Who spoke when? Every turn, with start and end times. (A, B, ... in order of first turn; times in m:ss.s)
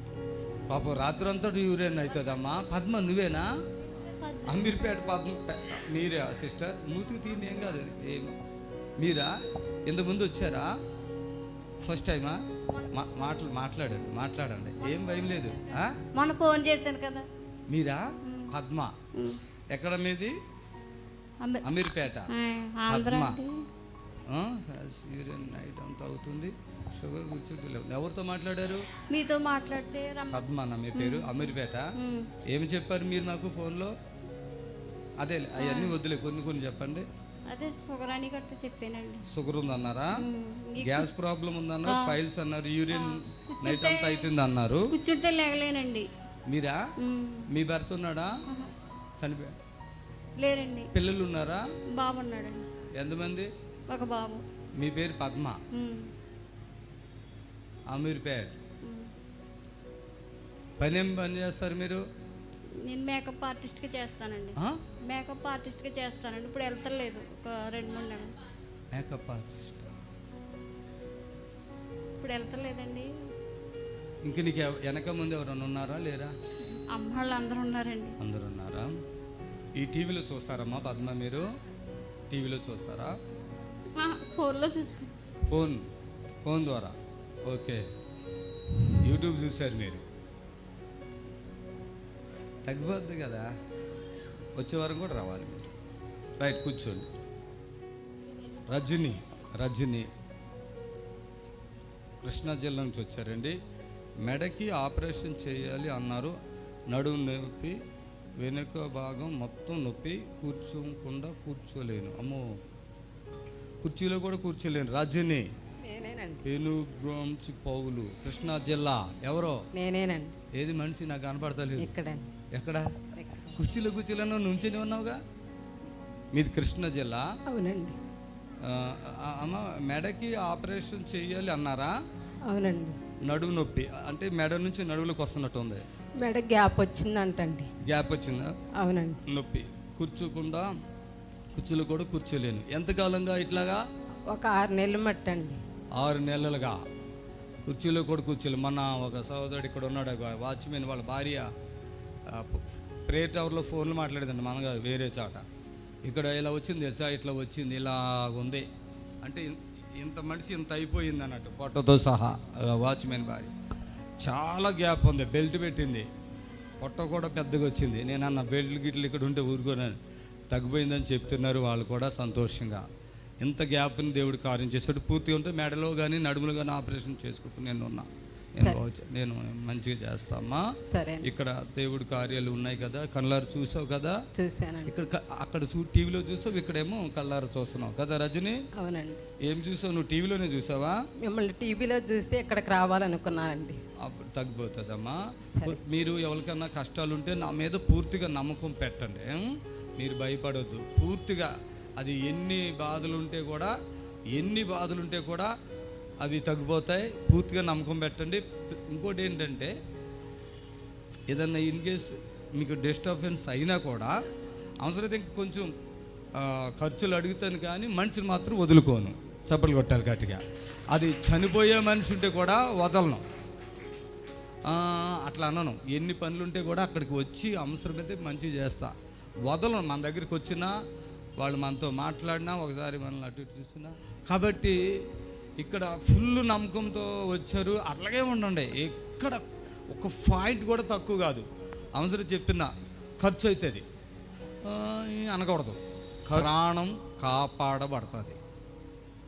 0:00.7-0:03.5 A
0:04.4-0:08.3 A
0:09.0-0:09.3 A
0:09.9-0:10.7 A
0:11.8-0:12.4 A
0:12.9-0:16.0 A
0:16.1-0:17.3 B
0:17.7-0:18.9 A
0:18.2-0:18.5 B
0:19.1-0:19.4 B
0:19.7-0:20.3 A
0:21.6-0:22.3 A
0:22.3-0:23.6 B
0:22.9-0:23.4 A
0:24.3-0:28.8 A
0:29.1-0:30.4 B
0:30.3-0:31.9 A
0:31.0-0:32.3 B
0:32.5-0:33.9 A
0:35.2-0:37.0 A
0:35.6-0:36.0 B
0:37.5-0:39.2 B
0:39.3-0:40.2 A
0:40.2-0:41.1 B
0:40.8-0:44.9 A
0:41.9-0:42.2 B
0:42.9-0:44.3 B
0:44.9-0:46.1 B
0:46.5-0:46.8 A
0:47.0-0:47.5 B
0:47.5-0:48.3 A
0:49.2-0:49.6 A
0:50.4-0:50.9 B
0:50.9-0:51.6 A
0:52.0-0:52.6 B
0:53.0-0:53.5 A
0:53.9-0:54.4 B
0:54.8-0:55.6 A
0:55.7-0:56.1 B
0:57.9-0:58.6 A
0:58.8-0:59.1 B
1:00.8-1:02.0 A
1:02.8-1:04.6 B
1:05.1-1:08.4 B
1:08.9-1:10.0 A
1:12.2-1:13.1 B
1:14.2-1:16.3 A
1:16.9-1:18.2 B
1:18.2-1:18.9 A
1:19.8-1:21.4 A
1:22.3-1:23.1 A
1:24.0-1:25.1 B
1:25.5-1:25.8 A
1:26.4-1:27.8 A
1:29.0-1:30.0 A
1:32.6-1:33.5 A
1:34.6-1:35.7 A
1:36.4-1:37.1 A
1:38.7-1:40.1 A
1:42.2-1:43.6 A
1:44.2-1:46.4 A
1:46.9-1:47.8 A
1:48.4-1:52.4 A
1:53.8-1:55.5 A
1:55.9-1:56.4 C
1:56.4-1:59.6 A
1:59.8-2:00.4 C
2:00.6-2:01.9 A
2:01.8-2:02.3 C
2:02.5-2:02.9 A
2:03.5-2:05.2 A
2:06.3-2:07.3 A
2:07.5-2:08.0 C
2:08.6-2:11.9 A
2:12.5-2:13.0 C
2:13.2-2:15.8 A
2:16.2-2:17.7 C
2:17.8-2:18.5 A
2:18.8-2:19.2 C
2:19.3-2:20.7 A
2:21.5-2:23.8 A
2:24.3-2:25.6 C
2:26.0-2:26.8 A
2:27.6-2:31.5 A
2:32.3-2:35.4 A
2:36.0-2:38.7 A
2:39.2-2:43.5 A
2:44.2-2:46.1 A
2:46.8-2:50.0 A
2:50.5-2:52.8 A
2:53.4-3:00.6 A
3:00.9-3:01.3 C
3:01.2-3:04.2 A
3:04.4-3:04.9 C
3:04.9-3:08.6 A
3:08.8-3:09.2 C
3:09.4-3:11.0 A
3:11.2-3:13.8 C
3:14.0-3:19.4 A
3:15.5-3:15.8 C
3:20.0-3:23.7 A
3:24.3-3:25.5 A
3:26.2-3:29.7 A
3:31.3-3:34.1 A
3:34.8-3:35.7 A
3:36.4-3:43.2 A
3:44.7-3:48.9 A
3:49.4-3:50.7 A
3:51.4-3:54.8 A
3:55.6-4:02.7 A
4:03.2-4:03.8 A
4:04.7-4:08.4 A